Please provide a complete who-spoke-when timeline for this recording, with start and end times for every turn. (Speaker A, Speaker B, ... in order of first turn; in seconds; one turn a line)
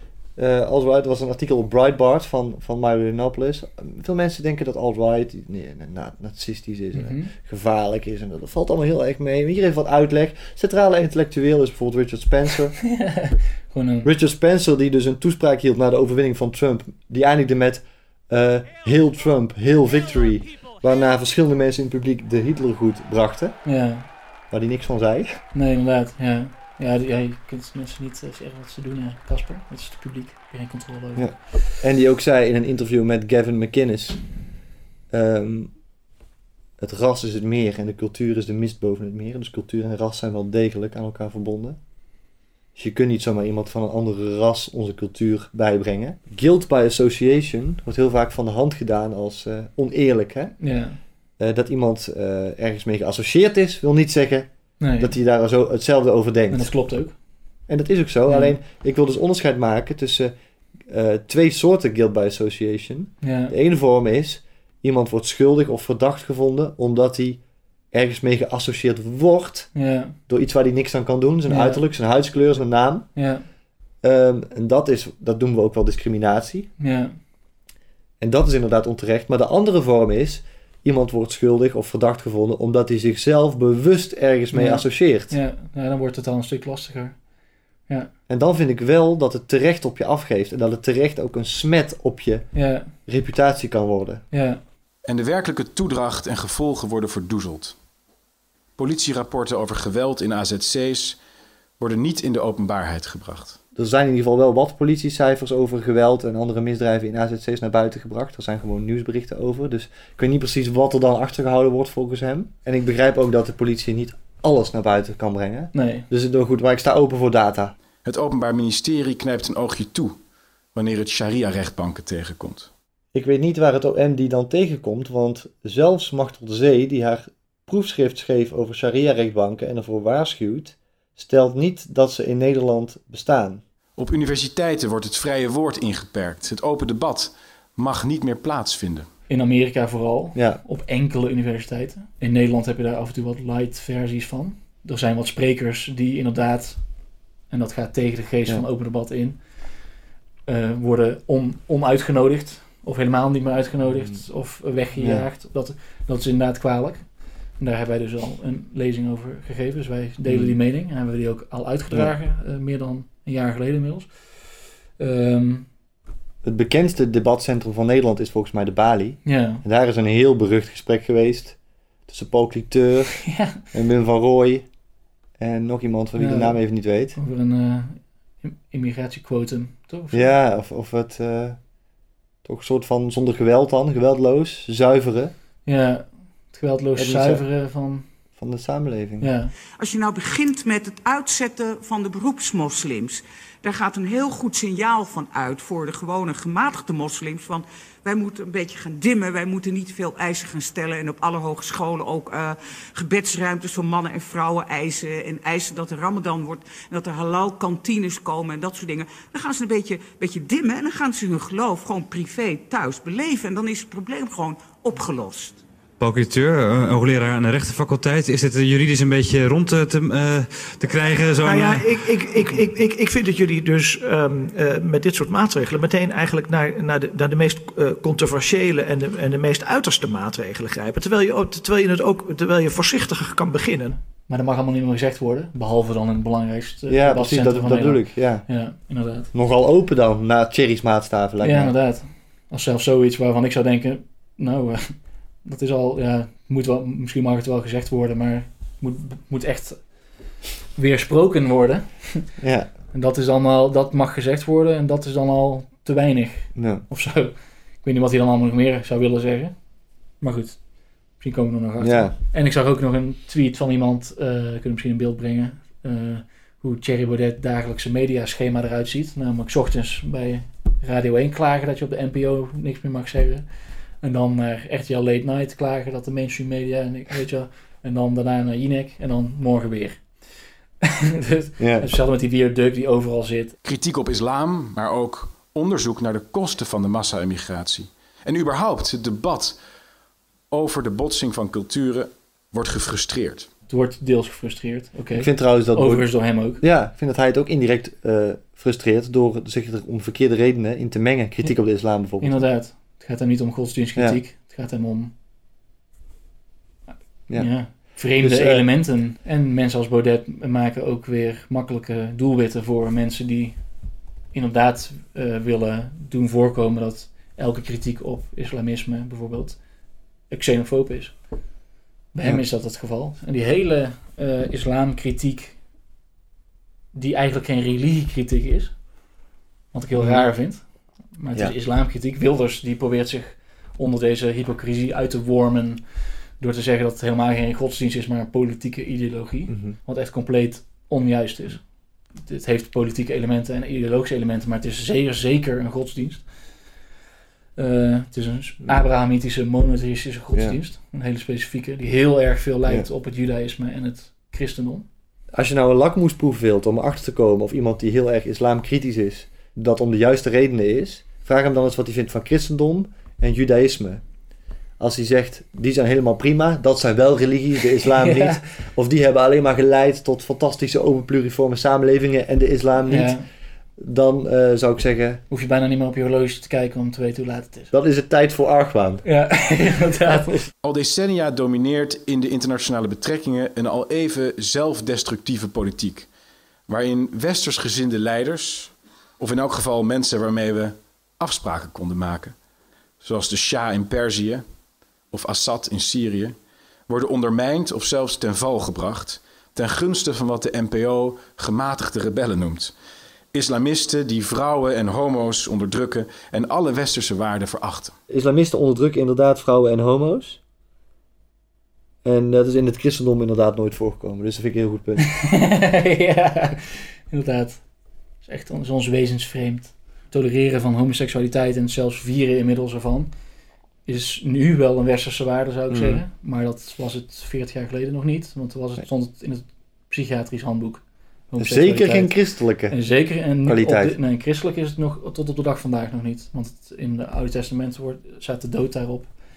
Speaker A: 0.4-12.8
Speaker B: 6.9-7.3
Speaker B: 12.8-14.1
Speaker A: 14.0-23.6
Speaker B: 23.6-24.1
Speaker A: 24.5-25.4
Speaker B: 25.5-31.4
Speaker A: 31.1-34.2
Speaker A: 35.1-35.7
Speaker A: 36.8-41.8
Speaker A: 42.8-50.5
Speaker B: 50.6-51.0
Speaker A: 51.4-56.7
Speaker B: 54.8-55.1
Speaker B: 56.5-57.1
Speaker A: 57.7-60.3
Speaker B: 58.3-58.6
Speaker A: 60.9-67.4
Speaker B: 63.2-63.5
Speaker A: 67.9-69.7
Speaker B: 69.7-70.2
Speaker A: 70.3-73.1
Speaker B: 71.5-71.8
Speaker B: 73.1-73.4
Speaker A: 74.0-76.7
Speaker B: 76.8-77.1
Speaker A: 78.2-85.3
Speaker B: 84.5-87.2
Speaker A: 88.3-92.5
Speaker B: 92.5-92.9
Speaker A: 93.0-94.2
Speaker B: 94.3-94.6
Speaker C: 95.0-97.7
Speaker C: 98.8-101.2
Speaker C: 101.8-103.6
Speaker A: 103.7-117.7
Speaker B: 115.7-116.1
Speaker C: 118.0-120.2
Speaker C: 120.7-122.7
Speaker A: 123.1-133.6
Speaker C: 134.0-139.1
Speaker B: 139.3-146.8
Speaker A: 140.3-140.6
Speaker B: 147.5-149.4
Speaker B: 150.4-157.1
Speaker A: 155.0-155.2
Speaker B: 157.6-164.1
Speaker A: 160.2-160.6
Speaker B: 165.0-165.7
Speaker A: 166.4-171.6
Speaker B: 169.2-169.6
Speaker A: 172.1-174.6
Speaker B: 173.2-173.6
Speaker A: 175.4-177.2
Speaker B: 176.2-176.6
Speaker B: 177.1-180.4
Speaker A: 180.1-181.6
Speaker A: 182.4-185.3
Speaker B: 185.7-188.1
Speaker A: 186.9-187.4
Speaker A: 188.4-189.3
Speaker B: 189.2-189.5
Speaker D: 189.8-215.6
Speaker E: 216.0-222.0
Speaker F: 221.4-233.9
Speaker B: 234.3-239.3
Speaker A: 236.9-238.4
Speaker A: 239.3-241.7
Speaker B: 241.4-249.8
Speaker B: 250.8-252.3
Speaker A: 252.4-252.7
Speaker B: 252.9-259.5
Speaker A: 256.5-256.8
Speaker B: 260.2-260.6
Speaker B: 261.2-273.4
Speaker A: 261.8-262.1
Speaker B: 274.0-280.0
Speaker B: 280.8-283.6
Speaker A: 281.6-281.9
Speaker C: 283.6-289.6
Speaker C: 290.5-293.5
Speaker B: 293.7-296.6
Speaker A: 295.2-302.4
Speaker B: 302.2-305.1
Speaker A: 307.3-308.6
Speaker B: 307.3-313.6
Speaker B: 314.3-319.6
Speaker B: 320.3-321.2
Speaker B: 322.1-325.6
Speaker B: 326.9-328.8
Speaker B: 329.7-335.8
Speaker A: 329.9-330.2
Speaker B: 336.4-346.2
Speaker A: 339.5-339.8
Speaker B: 347.6-354.9
Speaker A: 355.3-364.0
Speaker A: 364.8-373.2
Speaker B: 367.8-368.4
Speaker B: 372.9-373.2
Speaker A: 373.8-375.2
Speaker B: 375.3-377.7
Speaker A: 377.7-379.0
Speaker B: 379.0-380.4
Speaker C: 380.6-386.1
Speaker C: 386.7-392.3
Speaker C: 393.0-394.4
Speaker C: 395.1-396.4
Speaker C: 396.9-402.7
Speaker C: 403.3-407.9
Speaker A: 408.1-410.4
Speaker A: 412.0-415.1
Speaker B: 415.0-417.6
Speaker B: 418.2-423.1
Speaker B: 423.9-432.2
Speaker A: 425.7-426.0
Speaker A: 431.4-432.8
Speaker B: 432.7-439.1
Speaker A: 433.4-433.9